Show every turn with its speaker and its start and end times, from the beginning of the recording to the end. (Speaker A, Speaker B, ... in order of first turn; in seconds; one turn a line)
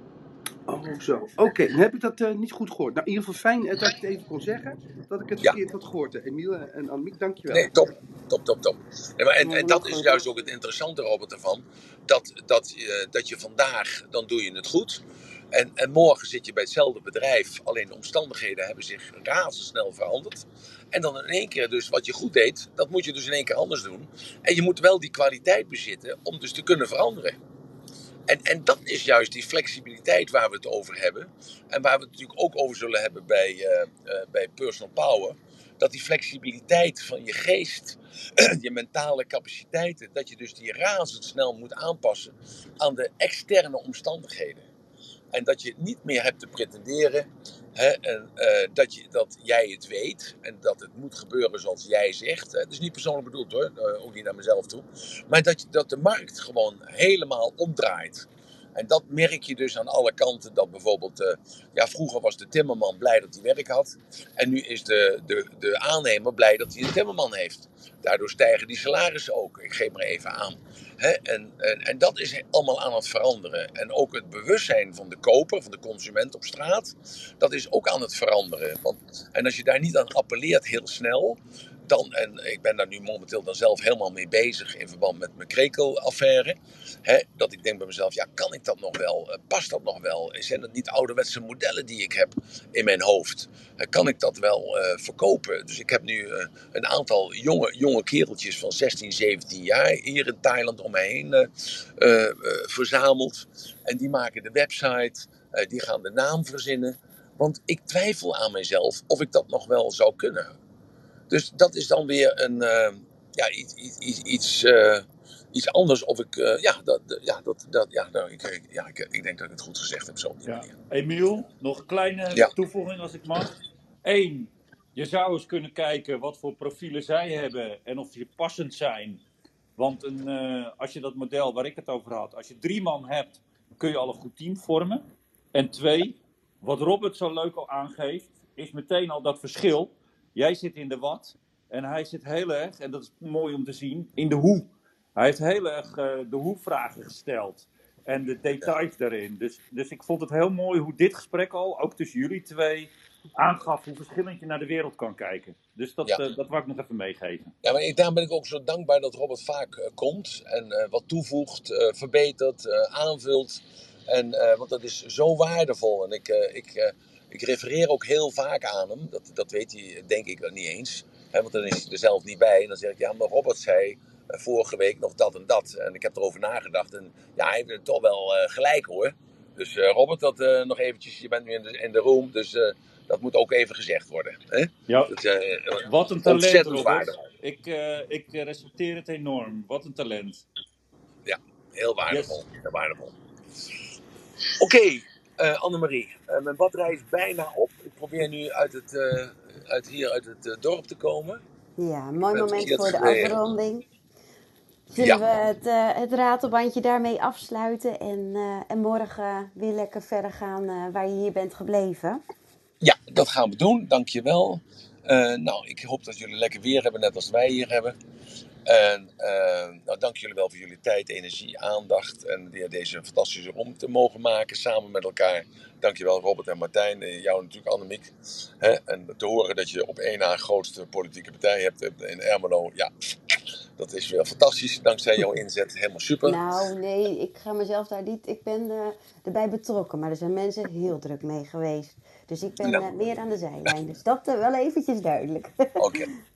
Speaker A: 0.7-7.7
Speaker B: 7.5-27.4
Speaker C: 9.4-10.2
Speaker B: 28.3-44.7
Speaker B: 45.3-110.5
Speaker B: 111.3-120.7
Speaker D: 120.5-129.2
Speaker D: 129.8-135.0
Speaker D: 135.5-157.5
Speaker B: 157.6-187.2
Speaker D: 184.9-185.2
Speaker D: 185.8-190.4
Speaker B: 191.2-193.1
Speaker D: 192.1-192.4
Speaker B: 194.6-201.4
Speaker C: 201.8-203.8
Speaker B: 202.3-203.4
Speaker C: 204.9-212.2
Speaker B: 205.0-205.2
Speaker B: 212.8-218.0
Speaker B: 218.7-236.4
Speaker C: 236.2-246.1
Speaker B: 242.6-242.9
Speaker B: 245.8-246.1